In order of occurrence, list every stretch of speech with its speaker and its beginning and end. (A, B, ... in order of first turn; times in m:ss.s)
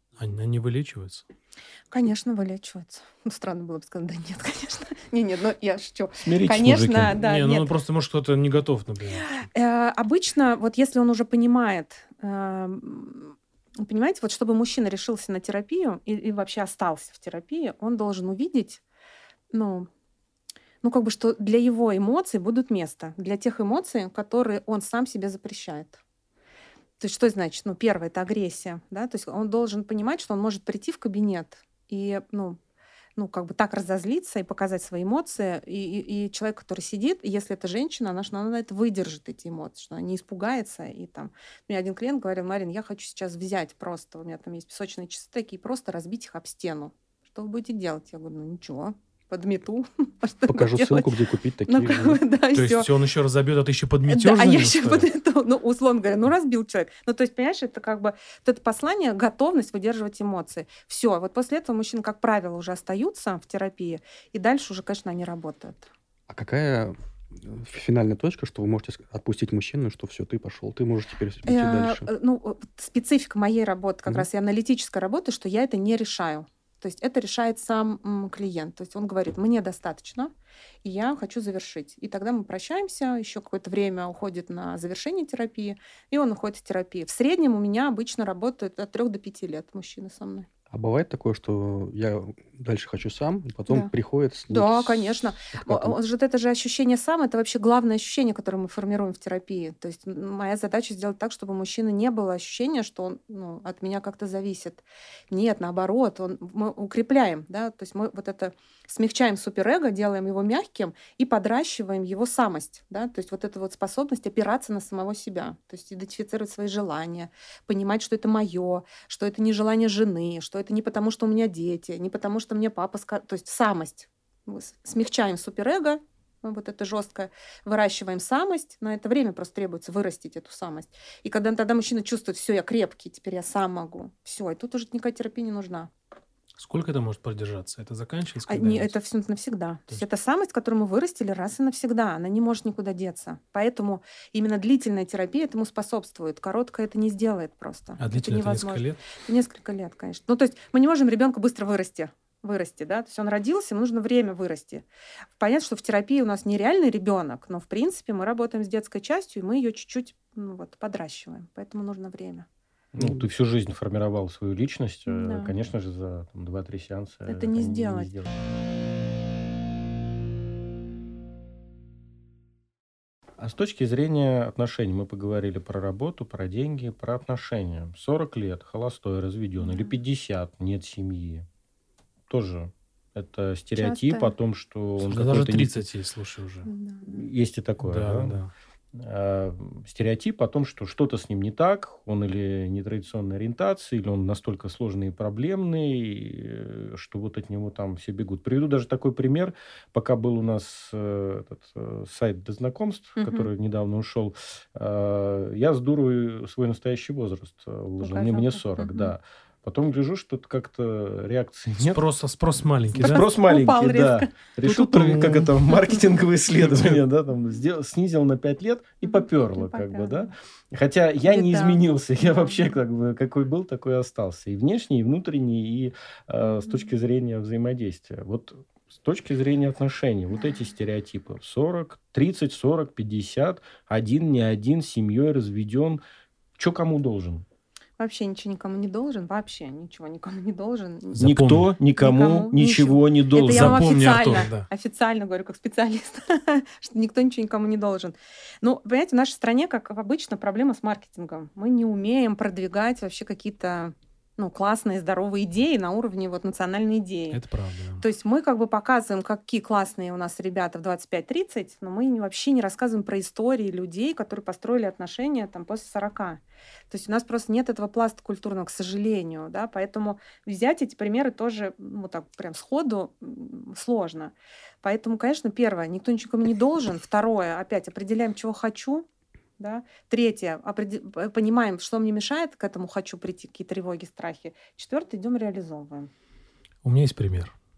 0:00.2-0:01.2 A
0:01.9-0:07.7 B
0:06.2-0:07.2 C
0:07.1-0:09.3 A
0:09.1-0:18.8 B
0:19.5-0:19.9 B
0:20.8-0:26.0 B
0:27.0-0:32.6 B
0:33.2-0:52.9 B
0:50.5-0:52.2 D
0:52.5-0:55.1 A
0:54.1-1:05.9 B
1:06.3-1:12.1 D
1:11.4-1:20.3 B
1:20.8-1:30.5 B
1:30.7-1:36.0 D
1:34.5-2:15.9 B
2:16.6-2:18.9 A
2:18.5-2:34.8 B
2:28.0-2:29.0 A
2:35.4-2:42.5 B
2:42.9-2:48.3 C
2:45.1-2:45.6 B
2:47.3-2:48.1 B
2:53.4-3:01.4 C
2:59.6-2:59.9 B
3:02.3-3:05.8 C
3:03.7-3:04.3 B
3:05.1-3:06.7 A
3:06.6-3:07.2 B
3:07.0-3:08.4 C
3:07.8-3:08.5 A
3:08.9-3:32.0 C
3:23.2-3:23.5 B
3:28.0-3:29.1 B
3:31.8-3:33.3 A
3:32.9-3:56.0 C
3:33.0-3:34.3 B
3:34.6-3:35.6 A
3:36.6-3:37.0 A
3:39.0-3:40.3 B
3:41.3-3:42.6 B
3:46.4-3:46.9 B
3:50.3-3:50.6 B
3:56.6-3:57.4 C
3:58.0-4:01.3 B
4:01.1-4:01.7 A
4:01.2-4:04.4 C
4:02.0-4:17.4 B
4:03.4-4:04.7 A
4:17.3-4:18.0 A
4:18.0-4:39.0 B
4:39.6-4:46.1 B
4:46.8-4:47.5 A